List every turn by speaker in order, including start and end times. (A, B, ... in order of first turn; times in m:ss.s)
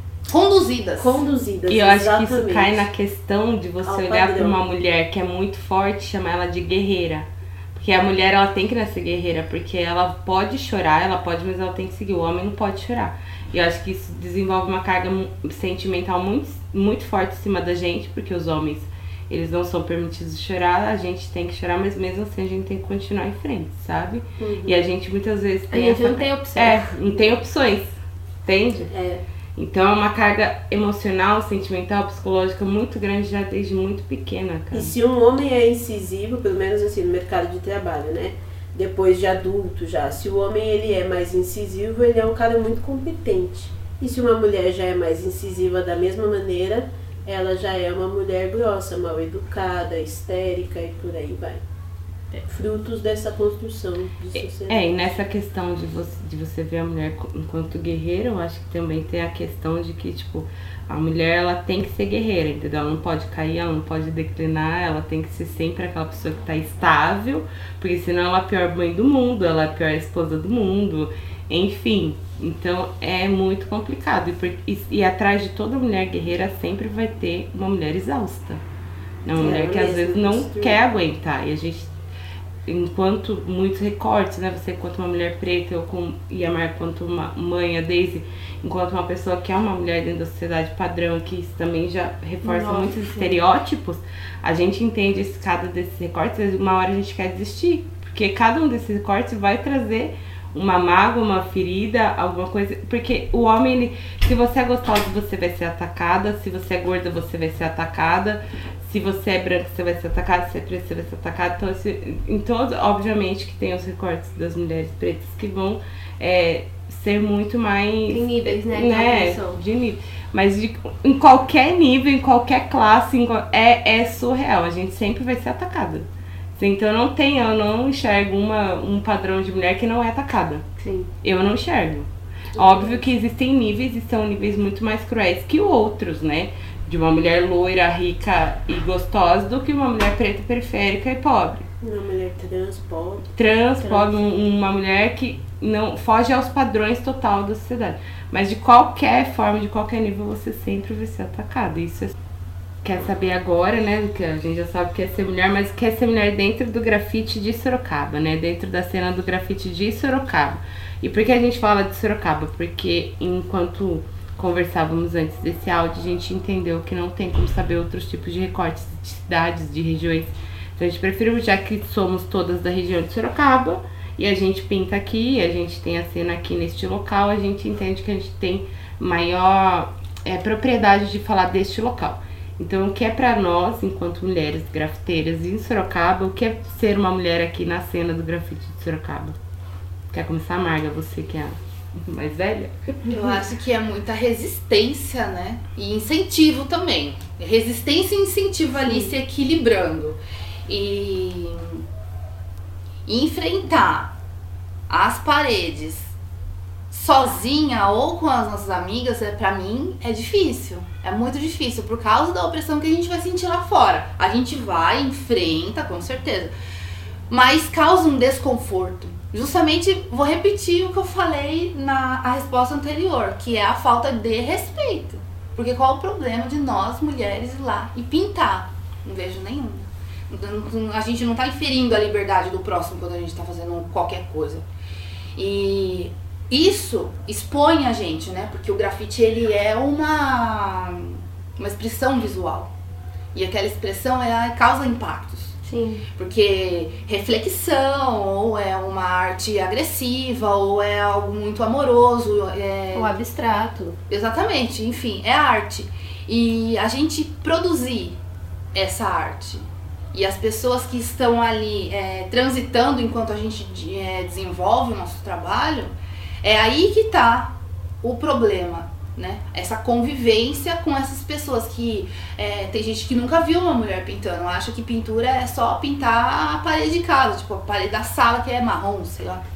0:00.3-0:01.2 A
0:01.0-0:02.9 B
0:01.7-0:28.0 C
0:03.8-0:04.6 B
0:24.4-0:24.9 B
0:25.7-0:26.9 D
0:28.5-0:28.9 C
0:28.9-0:29.2 B
0:29.6-0:34.9 C
0:34.7-0:51.6 B
0:52.5-0:55.0 B
0:54.7-1:18.6 C
1:19.2-1:21.9 C
1:19.4-1:20.8 B
1:22.7-2:10.6 C
1:32.4-1:33.4 D
1:58.1-1:59.6 D
2:10.8-2:11.1 D
2:11.2-2:21.7 C
2:12.6-2:13.1 B
2:21.8-2:23.2 B
2:23.4-2:32.1 C
2:32.8-3:09.4 C
3:10.1-3:13.0 C
3:13.1-3:21.8 A
3:18.8-3:19.1 D
3:23.1-3:24.2 A
3:24.9-3:26.1 A
3:26.9-3:36.5 A
3:37.3-3:54.7 A
3:55.4-4:02.7 A
4:03.3-4:05.6 A
4:05.6-4:06.0 D
4:06.2-4:13.1 A
4:13.0-4:14.0 D
4:14.1-4:18.2 A
4:18.7-4:25.9 A
4:26.4-4:39.5 A